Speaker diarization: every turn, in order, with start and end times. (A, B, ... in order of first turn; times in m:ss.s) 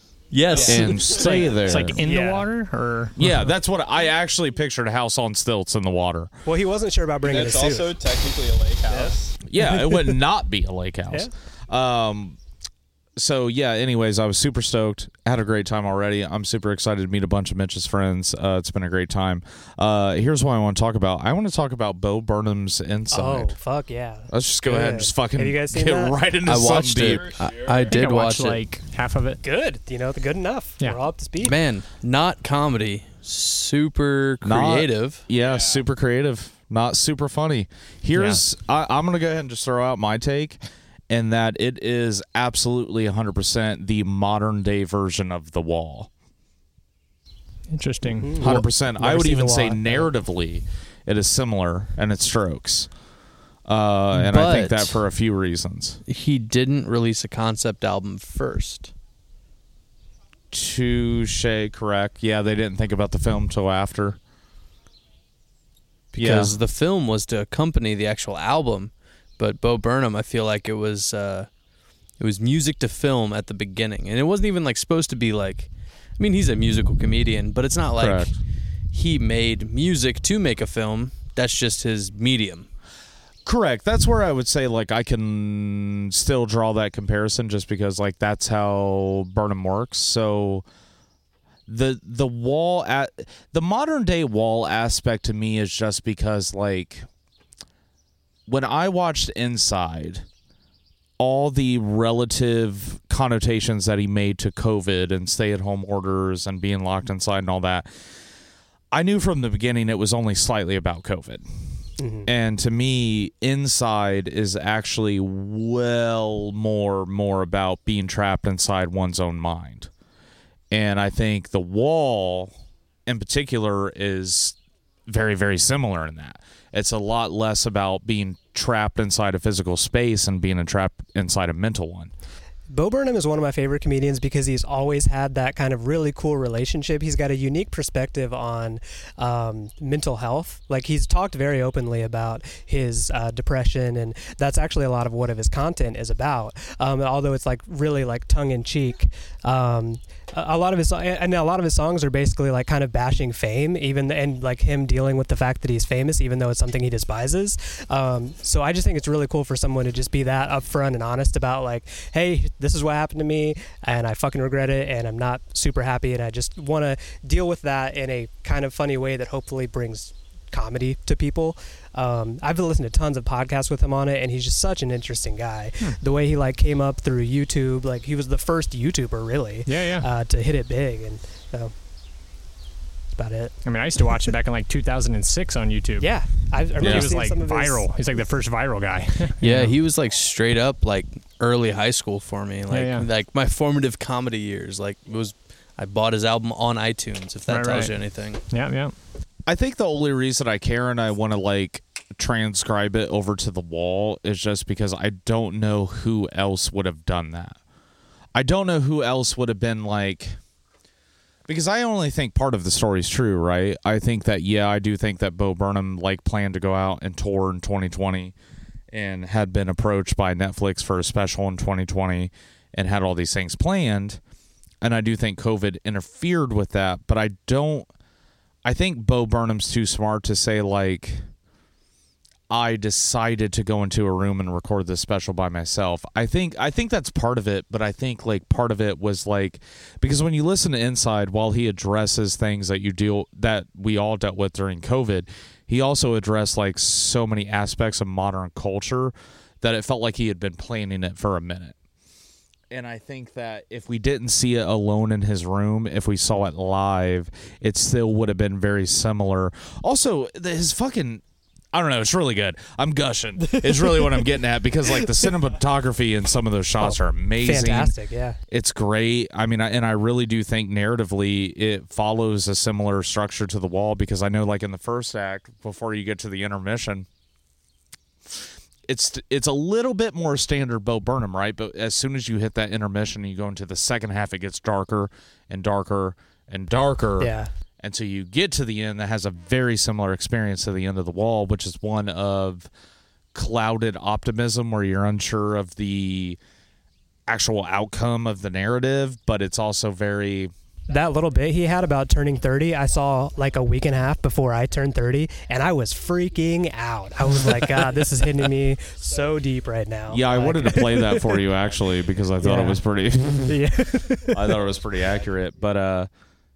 0:00.3-0:01.1 A
0:00.6-0:02.0 B
0:00.9-0:03.5 C
0:02.0-0:02.5 D
0:03.2-0:06.3 B
0:06.4-0:08.0 D
0:07.3-0:09.3 E
0:09.4-0:12.4 B
0:13.2-0:23.6 B
0:23.1-0:26.2 D
0:24.3-0:27.5 B
0:26.4-0:28.6 A
0:27.7-0:29.4 C
0:29.4-0:31.6 D
0:31.4-0:35.2 A
0:34.4-0:46.1 B
0:38.1-0:38.4 C
0:47.7-0:48.4 C
0:48.0-0:50.1 D
0:48.4-0:52.9 B
0:53.6-0:56.0 B
0:54.1-0:55.0 A
0:56.1-0:58.9 A
1:00.5-1:04.2 B
1:06.1-1:11.5 A
1:06.1-1:06.5 B
1:12.2-1:18.3 A
1:18.0-1:18.3 B
1:18.9-1:22.7 A
1:23.4-1:30.6 B
1:31.7-1:37.1 B
1:38.5-1:40.2 B
1:41.2-1:47.9 B
1:48.9-1:51.4 B
1:52.0-1:52.3 D
1:52.2-1:59.9 B
2:00.7-2:02.5 B
2:03.0-2:04.6 B
2:05.1-2:12.1 B
2:12.7-3:01.7 D
2:59.6-3:00.1 C
3:03.1-3:03.6 D
3:03.6-3:06.1 C
3:06.0-3:07.8 D
3:06.8-3:09.7 C
3:06.8-3:07.1 B
3:09.4-3:18.4 A
3:12.7-3:13.1 C
3:17.5-3:17.9 C
3:18.5-3:18.9 C
3:19.5-3:27.6 B
3:28.3-3:30.4 B
3:31.5-3:38.3 B
3:38.9-3:44.2 B
3:44.8-3:47.9 B
3:48.6-3:51.2 B
3:52.5-4:11.7 B
4:12.7-4:27.9 B
4:23.5-4:24.2 D
4:26.8-4:28.4 D
4:28.5-4:37.1 B
4:38.3-4:52.7 B
4:47.2-4:47.5 D
4:53.3-4:56.4 B
4:57.3-5:00.5 B
5:00.9-5:11.4 D
5:10.1-5:13.7 B
5:12.4-5:12.8 D
5:13.4-5:14.6 D
5:14.3-5:16.1 B